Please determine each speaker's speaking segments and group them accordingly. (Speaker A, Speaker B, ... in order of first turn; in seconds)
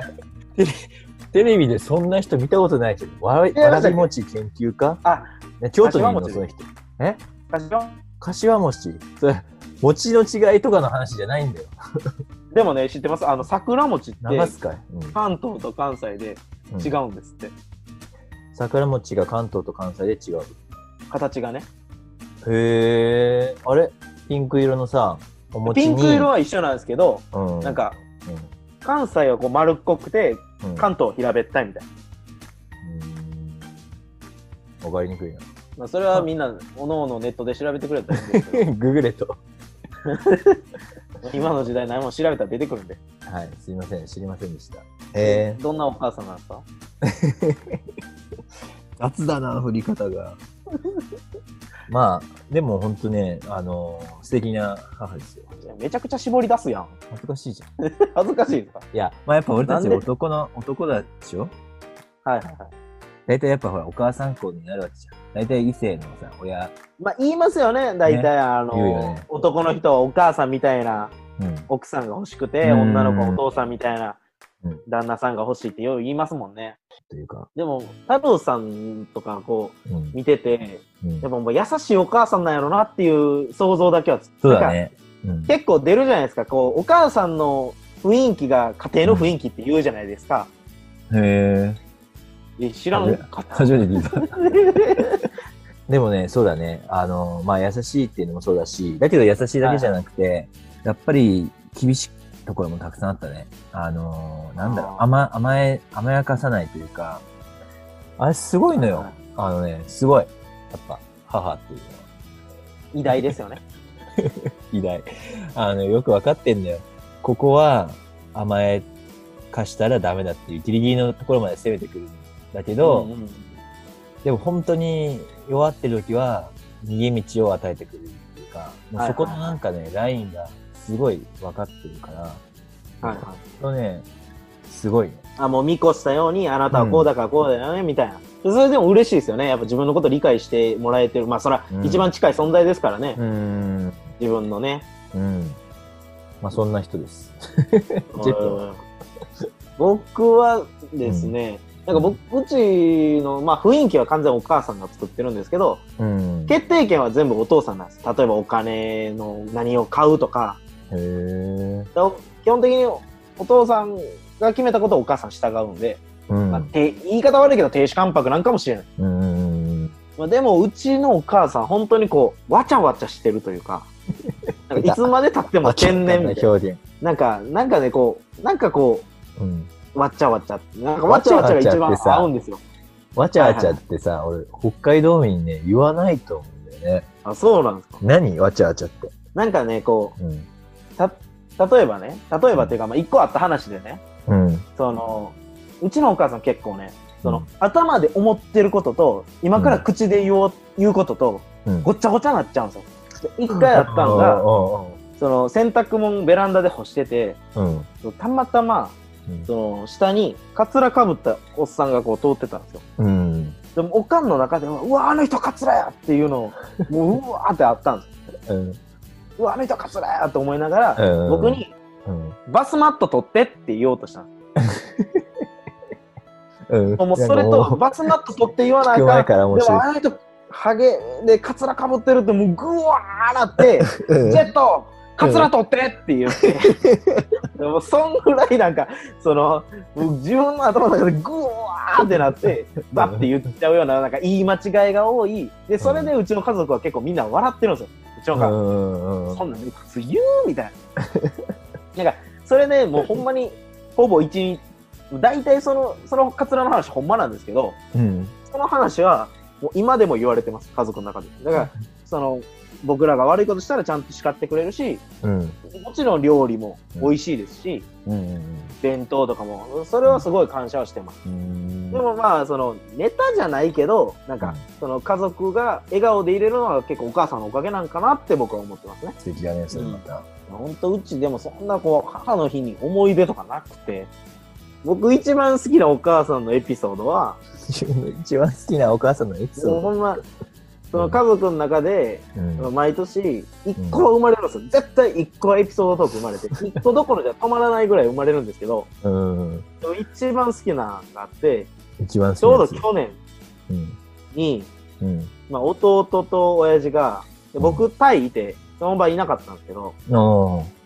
Speaker A: 0.6-5.0, 5.6-7.2, 8.2-11.8, 14.2-15.2, 16.7-16.9, 18.5-20.6, 22.4-26.3, 27.3-28.5, 30.6-30.9, 32.8-33.8, 34.8-35.5, 38.2-39.4, 43.2-45.6, 47.0-47.8, 49.0-50.4, 51.9-55.5, 57.1-57.7, 58.9-61.5, 63.3-66.7, 68.0-69.2, 71.4-71.7, 72.6-73.4, 77.1-77.5, 79.9-80.1, 84.4-85.5, 89.0-89.3, 91.1-91.8, 92.9-94.5, 95.9-107.2, 108.2-112.0, 113.1-113.4, 114.2-118.9, 119.5-123.1, 124.2-132.4, 133.0-134.1, 134.6-135.2, 136.7-137.1, 141.7-142.1, 143.2-144.1, 145.1-145.6, 146.4-148.6, 151.0-151.3, 151.9-152.2, 156.0-156.6, 160.9-161.9, 166.3-166.7, 169.0-169.9, 174.3-175.1, 175.6-176.8, 179.4-179.7, 181.1-182.3, 183.1-187.1, 188.0-189.1, 190.2-190.5, 194.3-194.7, 199.5-199.8, 203.5-205.0, 207.5-207.9, 213.0-213.6, 218.5-218.8, 221.0-222.4, 224.6-225.2, 226.7-227.8, 228.9-229.9, 233.9-234.4, 235.2-235.5, 236.7-237.2, 242.1-243.2, 245.8-246.1, 248.3-249.4, 251.1-251.4, 257.9-258.3, 265.2-265.6, 268.1-268.8, 271.2-272.0, 279.2-280.2, 287.6-290.0, 290.9-291.2, 292.4-292.7, 293.8-294.1, 299.0-299.6, 302.0-302.9, 303.7-304.0, 305.0-305.3, 307.6-307.8, 310.1-310.7
Speaker B: 3.5-4.1, 5.8-6.5, 7.5-7.9, 12.5-14.5, 15.1-17.5, 21.1-21.7, 25.6-28.0, 28.8-31.9, 35.8-38.7, 40.1-40.6, 41.2-43.0, 45.2-46.6, 55.6-57.0, 57.9-58.9, 59.6-60.0, 62.2-62.7, 67.0-71.1, 71.7-74.2, 74.9-76.8, 77.5-84.8, 85.5-90.5, 92.6-95.2, 99.6-99.9, 104.6-105.0, 108.7-109.2, 112.9-113.6, 122.8-123.5, 129.0-129.6, 133.0-133.4, 135.4-143.2, 144.2-144.9, 148.1-148.8, 149.8-155.8, 156.5-160.6, 161.9-168.9, 170.2-173.9, 174.7-176.5, 177.0-179.1, 179.9-182.6, 183.4-183.8, 187.2-188.0, 189.3-190.2, 191.0-194.0, 194.8-204.4, 205.2-207.4, 208.0-212.8, 213.8-218.1, 219.4-221.7, 222.5-224.3, 227.0-236.8, 237.6-248.6, 249.3-250.8, 251.9-257.8, 258.5-265.0, 265.7-267.9, 268.8-271.2, 271.9-279.2, 279.7-284.1, 284.8-287.4, 289.6-290.2, 290.9-298.9, 299.8-301.7, 302.4-303.2, 304.3-304.7, 305.5-310.0